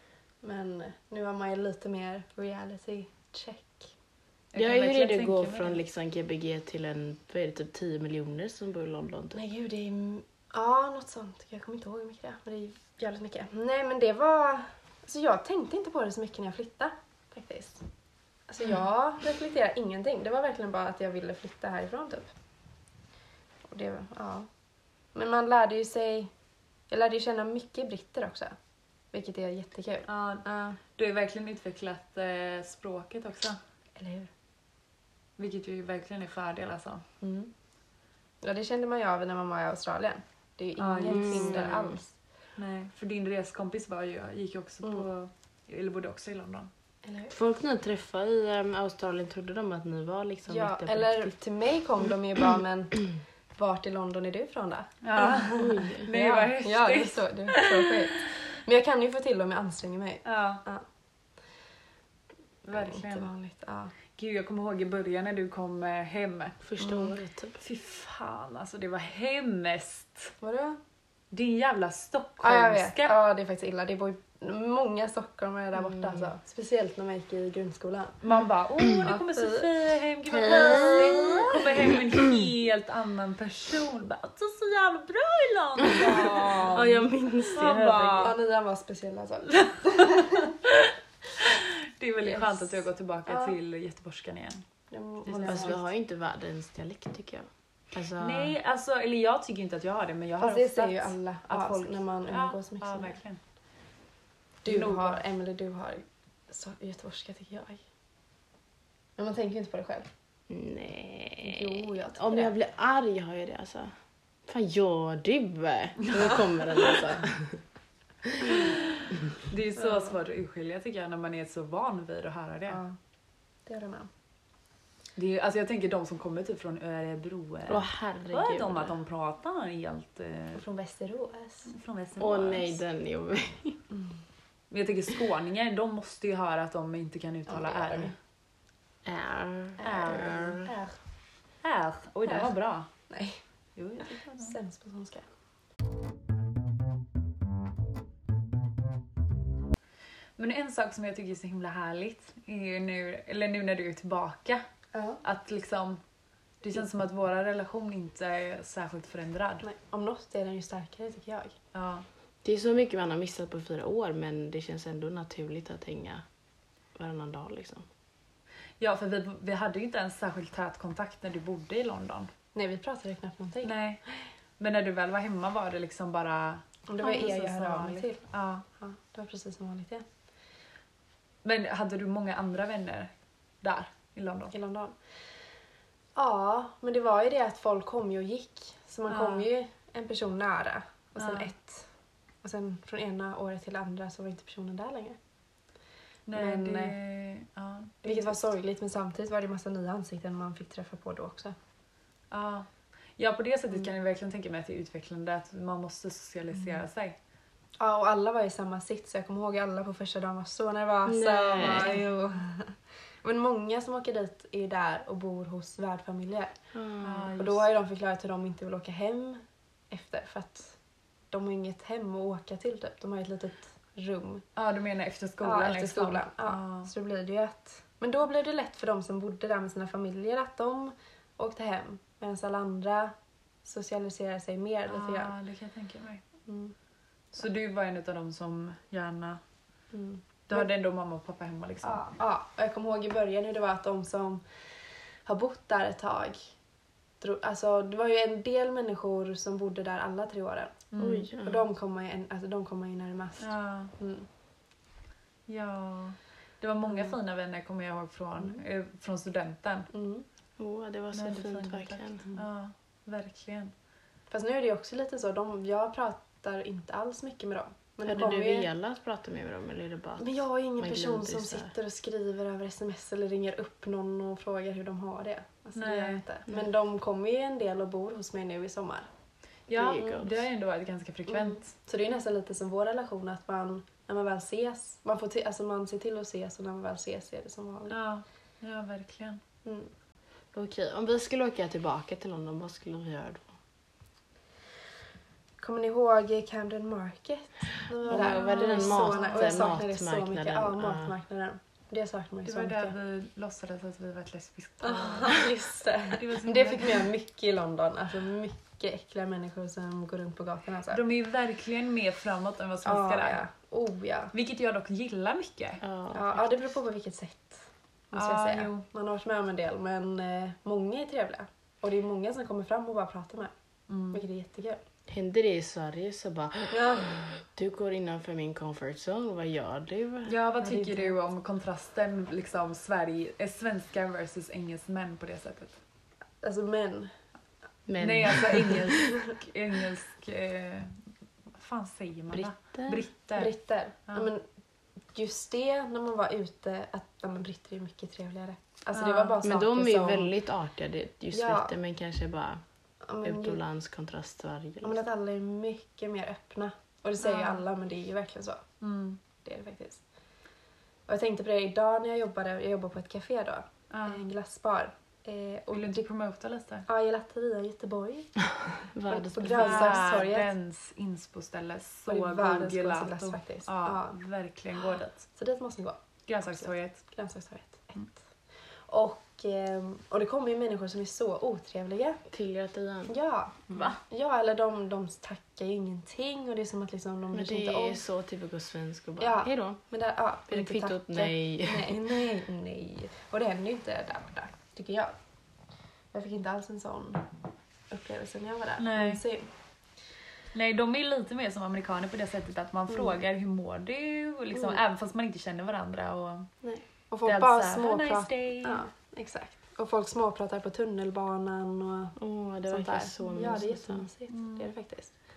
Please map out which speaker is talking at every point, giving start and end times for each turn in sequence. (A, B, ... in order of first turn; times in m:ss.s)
0:00.4-0:03.9 A
0:04.5-0:05.8 B
0:04.6-0:09.4 C
0:09.3-0:17.8 A
0:18.5-0:22.3 A
0:23.7-0:24.5 A
0:25.1-0:26.3 A
0:26.9-0:28.5 A
0:29.1-0:30.8 A
0:30.1-0:33.6 B
0:34.0-0:34.3 A
0:35.4-0:37.0 B
0:37.2-0:37.5 A
0:38.4-0:42.0 A
0:40.8-0:42.0 B
0:41.0-0:42.0 C
0:42.6-0:46.7 B
0:47.0-0:47.3 A
0:47.3-0:51.3 C
0:50.5-1:00.8 A
0:55.0-0:58.2 B
0:55.6-0:56.1 C
1:00.2-1:00.6 B
1:02.6-1:03.3 B
1:02.7-1:03.9 A
1:04.2-1:10.3 B
1:06.6-1:07.6 C
1:10.4-1:10.8 A
1:11.3-1:13.2 B
1:12.4-1:18.2 A
1:15.8-1:16.3 C
1:18.2-1:28.3 B
1:18.9-1:19.7 A
1:20.4-1:22.0 A
1:26.0-1:26.8 A
1:26.6-1:28.3 C
1:28.2-1:30.5 A
1:29.6-1:34.6 B
1:32.2-1:33.6 A
1:34.9-1:35.8 A
1:35.3-1:35.8 B
1:35.3-1:38.5 C
1:38.2-1:43.4 B
1:40.4-1:43.2 A
1:44.6-1:47.8 A
1:44.6-1:45.2 B
1:49.2-1:50.1 A
1:50.5-1:53.9 C
1:51.5-1:52.1 B
1:51.5-1:52.5 A
1:54.5-1:57.6 C
1:56.0-1:56.9 B
1:58.5-2:02.8 B
1:59.8-2:00.1 A
2:02.7-2:03.0 A
2:03.6-2:04.1 A
2:05.2-2:10.6 B
2:07.7-2:08.9 C
2:10.5-2:11.7 A
2:11.7-2:12.8 B
2:12.2-2:13.8 C
2:14.7-2:18.1 B
2:17.5-2:18.1 A
2:19.0-2:20.7 C
2:19.8-2:20.5 B
2:19.8-2:21.0 A
2:21.6-2:22.9 B
2:23.1-2:23.4 A
2:23.8-2:24.6 B
2:24.3-2:25.2 A
2:30.4-2:34.6 B
2:34.9-2:35.2 A
2:35.2-2:36.0 B
2:36.6-2:39.6 B
2:39.6-2:41.6 A
2:41.7-2:42.0 B
2:42.4-2:46.2 C
2:46.9-2:47.9 C
2:48.8-2:52.3 B
2:52.5-2:53.7 A
2:53.6-2:54.0 B
2:54.6-2:58.6 B
2:56.9-2:58.2 A
2:58.8-3:00.0 A
3:01.4-3:04.5 B
3:04.5-3:04.9 A
3:06.1-3:11.9 A
3:09.1-3:09.5 B
3:11.2-3:11.5 B
3:12.4-3:15.2 A
3:16.3-3:18.4 B
3:16.3-3:17.0 A
3:18.0-3:21.5 A
3:22.3-3:27.2 B
3:27.8-3:36.5 A
3:31.0-3:32.0 C
3:31.6-3:32.0 B
3:36.7-3:37.4 C
3:37.0-3:37.7 B
3:37.4-3:40.8 A
3:41.3-3:44.4 A
3:44.6-3:46.9 B
3:45.4-3:53.1 A
3:53.6-3:55.3 A
3:54.9-3:56.2 B
3:56.5-3:56.7 A
3:57.3-3:59.4 B
3:59.9-4:00.7 A
4:00.5-4:02.0 B
4:01.8-4:04.4 A
4:05.2-4:06.5 A
4:07.2-4:14.3 A
4:10.9-4:11.3 B
4:11.0-4:11.6 C
4:13.4-4:13.9 B
4:15.5-4:19.9 B
4:16.9-4:17.1 A
4:19.9-4:20.2 A
4:20.6-4:22.3 C
4:21.1-4:23.7 B
4:24.3-4:28.7 A
4:28.0-4:31.7 C
4:30.2-4:39.1 A
4:35.8-4:36.2 B
4:39.7-4:40.4 C
4:39.7-4:41.7 B
4:41.3-4:48.0 A
4:47.9-4:49.4 B
4:49.6-4:49.9 A
4:50.5-4:53.5 C
4:55.6-5:02.9 A
4:58.0-5:01.1 C
4:58.2-4:59.6 B
5:02.4-5:05.5 B
5:04.8-5:11.0 A
5:06.1-5:07.1 B
5:10.9-5:13.4 B
5:12.8-5:14.3 A
5:14.3-5:15.8 B
5:15.8-5:16.3 C
5:16.1-5:23.5 A
5:18.1-5:18.8 B
5:23.9-5:24.2 B
5:24.1-5:24.8 A
5:25.1-5:30.3 C
5:26.7-5:27.1 A
5:30.2-5:35.8 B
5:30.6-5:31.2 A
5:36.4-5:37.1 A
5:37.9-5:39.0 C
5:38.0-5:41.0 B
5:38.9-5:39.4 A
5:41.5-5:43.5 B
5:42.3-5:43.0 C
5:43.3-5:44.4 A
5:45.1-5:50.3 A
5:48.9-5:49.4 B
5:49.4-5:52.6 C
5:51.3-5:51.7 A
5:53.0-5:53.6 A
5:53.2-5:55.0 C
5:54.8-5:58.6 A
5:57.2-5:57.6 B
5:58.8-5:59.2 B
5:59.4-6:00.0 A
6:01.1-6:06.0 A
6:03.9-6:04.2 B
6:05.7-6:06.9 B
6:06.9-6:08.3 A
6:08.9-6:10.1 C
6:09.1-6:10.5 A
6:09.6-6:15.2 B
6:12.1-6:14.2 A
6:15.4-6:18.2 A
6:16.3-6:17.0 B
6:18.9-6:22.2 A
6:22.3-6:23.1 C
6:23.1-6:28.0 A
6:23.7-6:24.0 B
6:27.3-6:29.8 C
6:29.2-6:35.1 A
6:30.5-6:32.0 C
6:36.1-6:37.3 A
6:37.9-6:39.5 A
6:38.8-6:39.2 B
6:40.5-6:46.5 B
6:44.5-6:44.8 A
6:46.6-6:52.2 A
6:47.2-6:48.8 B
6:52.2-6:54.0 C
6:52.7-6:55.1 A
6:54.3-6:54.7 B